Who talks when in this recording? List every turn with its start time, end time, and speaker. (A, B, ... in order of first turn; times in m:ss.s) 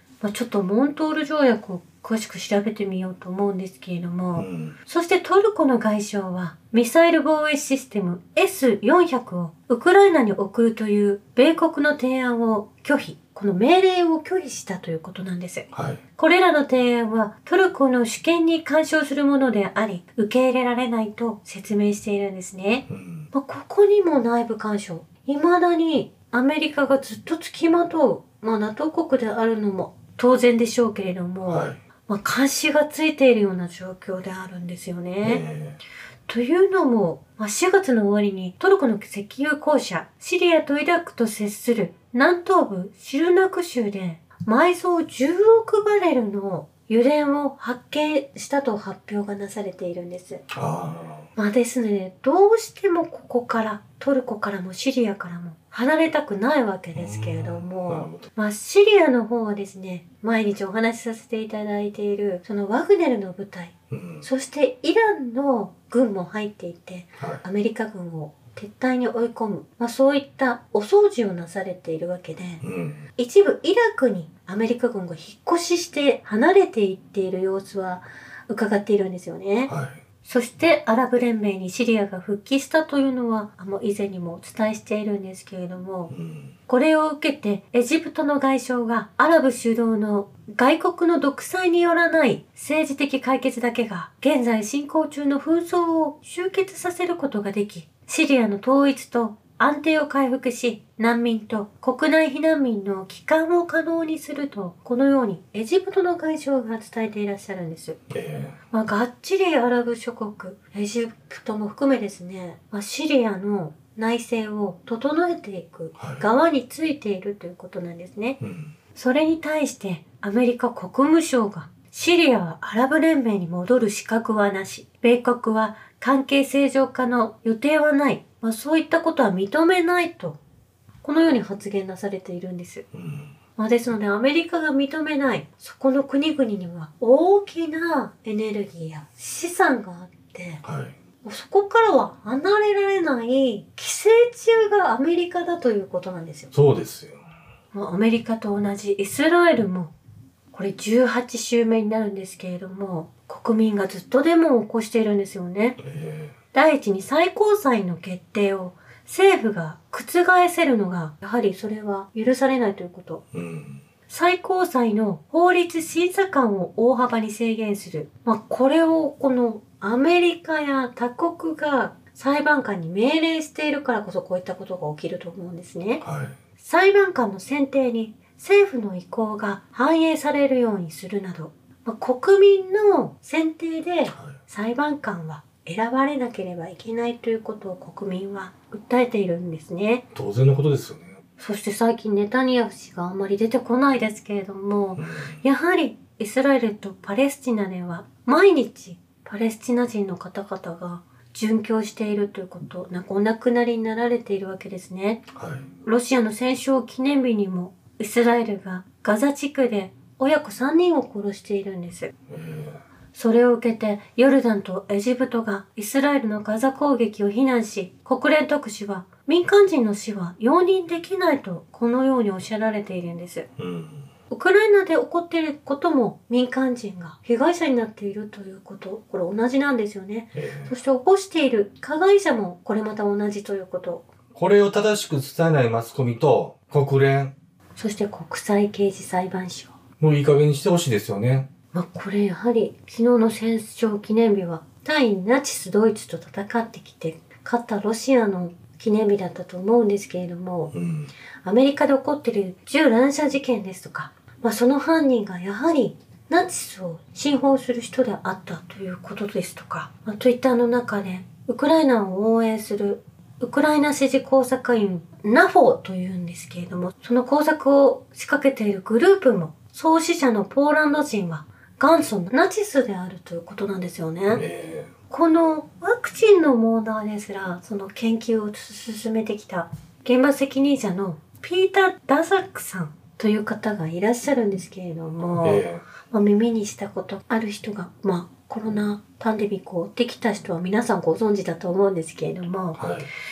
0:00.2-0:35.4 A
0:04.4-0:04.8 B
0:15.7-0:16.0 B
0:22.9-0:23.3 B
0:31.4-0:31.8 B
0:35.2-0:35.8 B
0:36.3-0:50.4 A
0:50.5-0:51.3 B
0:51.4-1:12.6 A
0:56.9-0:58.3 B
1:03.9-1:04.3 B
1:12.6-1:13.0 B
1:13.2-1:19.7 A
1:19.7-1:20.0 B
1:20.2-1:26.1 A
1:26.1-1:26.5 B
1:26.7-1:48.0 A
1:48.1-1:48.6 B
1:48.7-1:58.4 A
1:58.4-1:58.7 B
1:59.0-2:10.4 A
2:11.0-2:12.8 A
2:12.9-2:13.3 B
2:13.6-2:20.6 A
2:20.6-2:21.0 B
2:21.2-2:26.5 A
2:26.5-2:27.2 B
2:27.7-2:29.9 A
2:30.5-2:35.8 A
2:35.8-2:36.3 B
2:36.5-2:43.2 A
2:43.3-2:43.8 B
2:44.1-2:56.0 A
2:56.0-2:56.4 B
2:56.6-3:10.0 A
3:04.1-3:04.4 B
3:10.1-3:11.2 B
3:11.4-3:25.3 A
3:15.0-3:15.4 B
3:25.3-3:25.7 B
3:25.8-3:32.1 A
3:32.3-3:32.8 B
3:33.1-3:43.5 A
3:43.6-3:44.0 B
3:44.3-3:54.1 A
3:50.4-3:50.7 B
3:54.4-3:57.3 B
3:57.8-3:59.8 A
4:00.0-4:01.5 B
4:01.7-4:10.7 A
4:10.7-4:11.1 B
4:11.4-4:34.4 A
4:34.3-4:34.9 B
4:35.1-4:52.8 A
4:45.4-4:45.8 B
4:52.8-4:53.1 B